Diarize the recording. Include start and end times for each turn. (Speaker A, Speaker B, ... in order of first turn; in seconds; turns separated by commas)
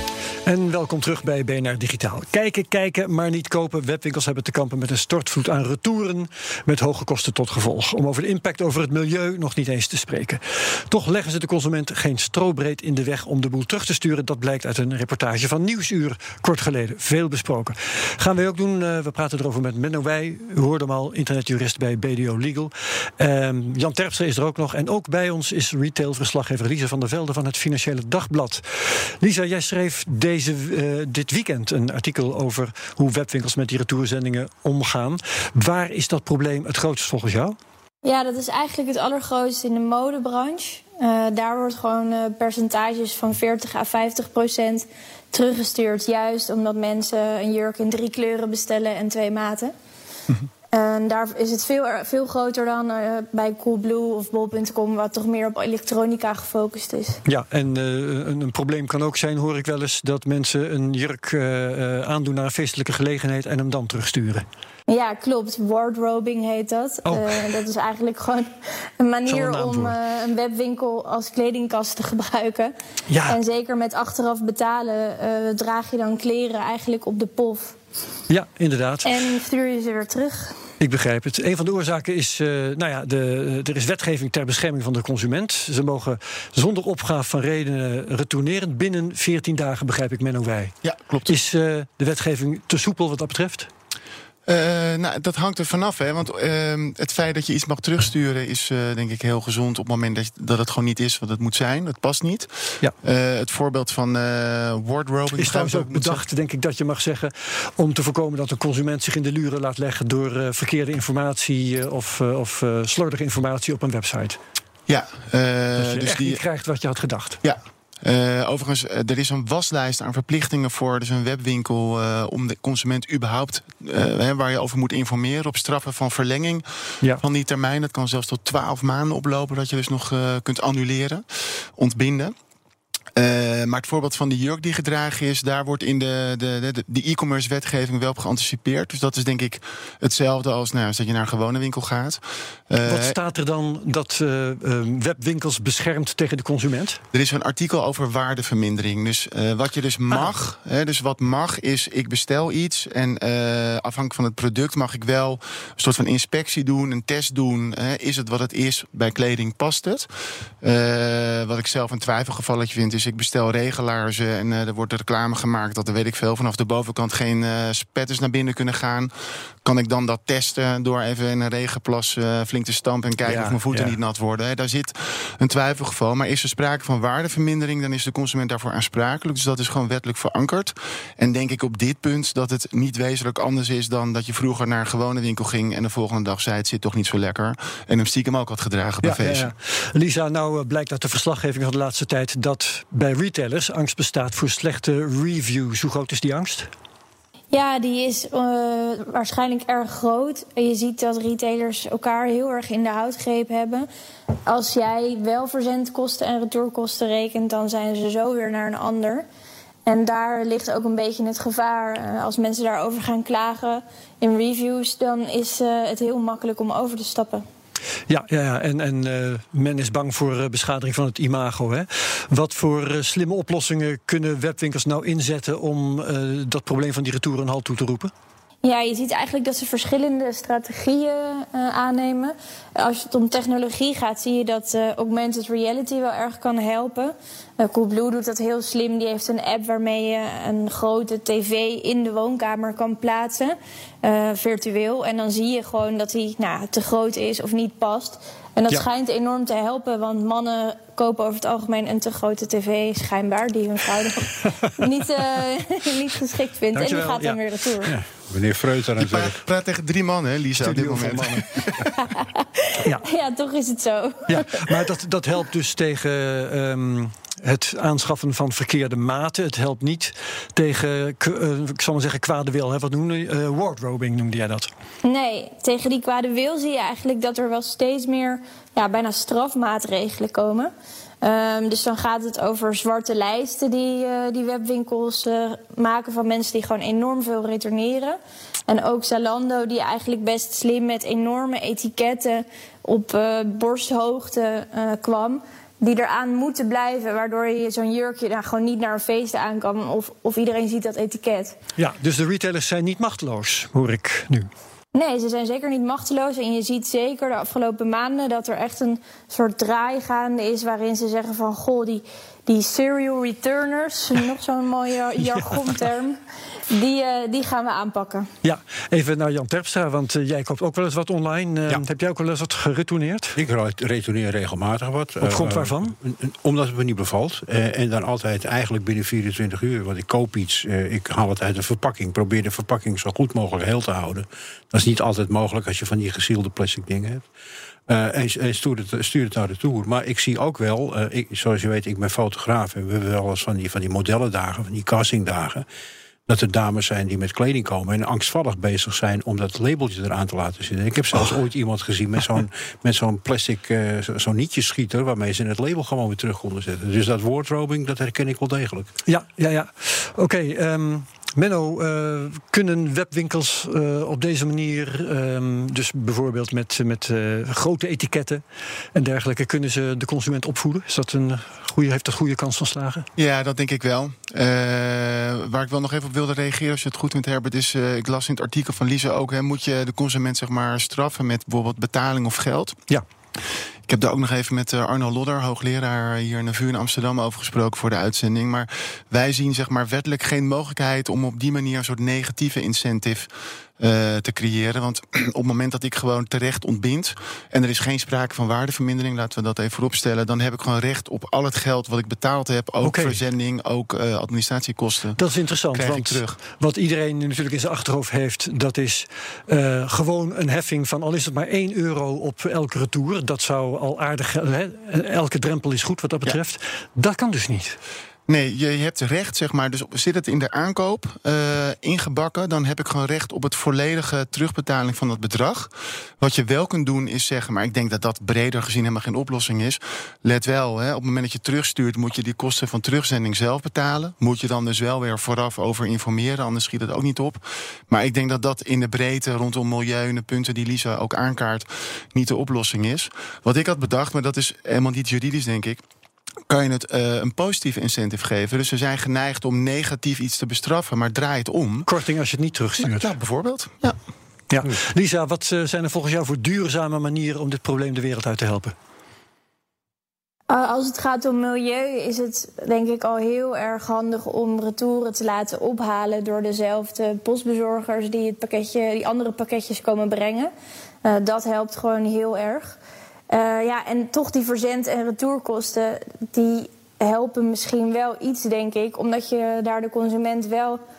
Speaker A: 0.5-37.5, Speaker B: 38.0-49.7, Speaker B: 50.7-57.2, Speaker A: 57.2-64.4, Speaker B: 64.9-72.7, Speaker A: 67.0-67.5, Speaker A: 69.3-69.9, Speaker A: 73.1-73.4, Speaker B: 73.2-77.8, Speaker A: 78.3-79.1, Speaker B: 79.0-80.6, Speaker A: 80.8-90.8, Speaker C: 90.8-91.3, Speaker A: 91.3-93.7, Speaker C: 94.5-106.2, Speaker A: 105.3-114.4, Speaker C: 114.9-116.4, Speaker A: 115.8-117.4, Speaker C: 117.4-132.3, Speaker C: 133.2-143.2, Speaker A: 142.8-147.0, Speaker C: 147.1-160.1, Speaker C: 160.6-169.1, Speaker C: 169.6-189.5, Speaker A: 173.2-173.9, Speaker A: 189.0-196.7, Speaker B: 197.5-203.9, Speaker B: 204.4-209.2, Speaker B: 209.8-217.4, Speaker A: 218.1-228.1, Speaker B: 228.6-257.9, Speaker A: 254.4-254.7, Speaker A: 256.7-257.4, Speaker D: 257.8-259.4, Speaker C: 258.9-261.9, Speaker A: 260.6-261.5, Speaker B: 262.1-264.4, Speaker A: 264.3-274.7, Speaker B: 275.0-280.7, Speaker B: 281.2-301.6, Speaker A: 301.8-304.5, Speaker B: 304.9-318.3, Speaker A: 315.3-315.8, Speaker A: 318.4-323.4, Speaker D: 323.3-337.2, Speaker A: 325.2-325.9, Speaker D: 337.9-345.6, Speaker D: 346.3-358.9, Speaker A: 359.1-368.4, Speaker A: 368.9-373.1, Speaker C: 373.2-382.8, Speaker C: 383.9-406.4, Speaker A: 402.8-403.2, Speaker A: 405.2-417.8, Speaker C: 418.3-445.8, Speaker C: 446.5-451.9, Speaker A: 451.9-453.1, Speaker C: 452.8-454.0, Speaker A: 454.5-458.7, Speaker B: 460.5-470.5, Speaker B: 471.0-472.8, Speaker B: 473.3-480.8